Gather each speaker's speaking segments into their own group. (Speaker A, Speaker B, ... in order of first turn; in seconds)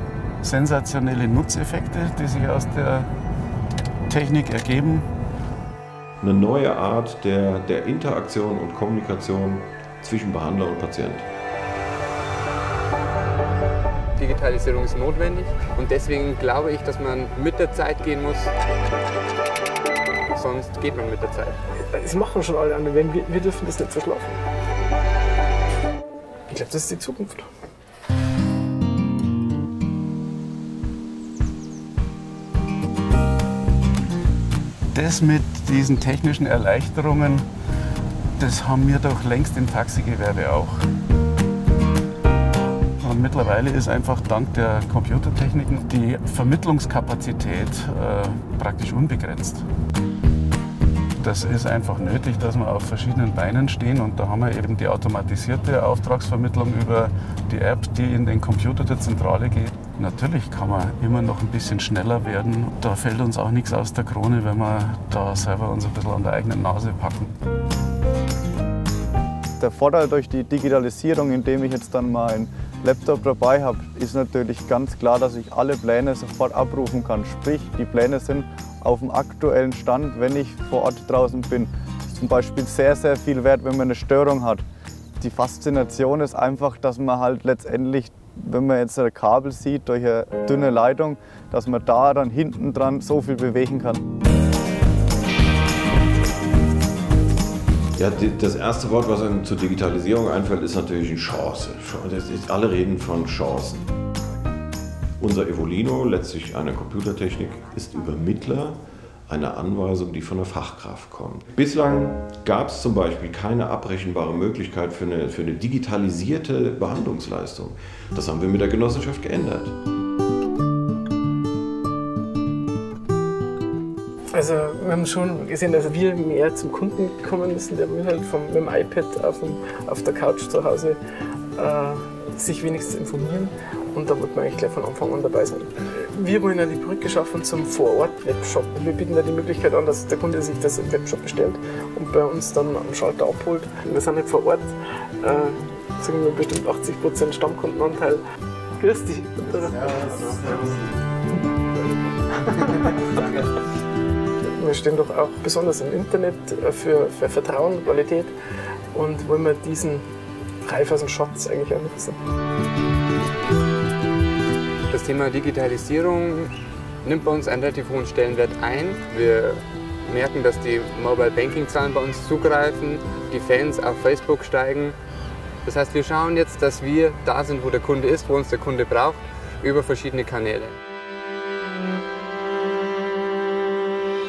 Speaker A: 0.4-3.1, 4.1-5.1, 34.9-37.5, 38.4-40.8, 43.0-49.7, 51.2-67.3
Speaker B: 6.2-11.3, 98.0-103.9, 105.2-119.8
Speaker C: 14.2-18.5, 20.3-21.6, 164.9-166.5, 167.0-175.0, 175.7-180.8
Speaker D: 21.9-24.4, 26.5-27.5, 124.3-131.0, 131.6-148.2, 148.8-150.7, 152.5-152.8, 154.5-158.3, 158.9-160.1, 160.6-162.2
Speaker E: 69.6-84.6, 85.2-94.0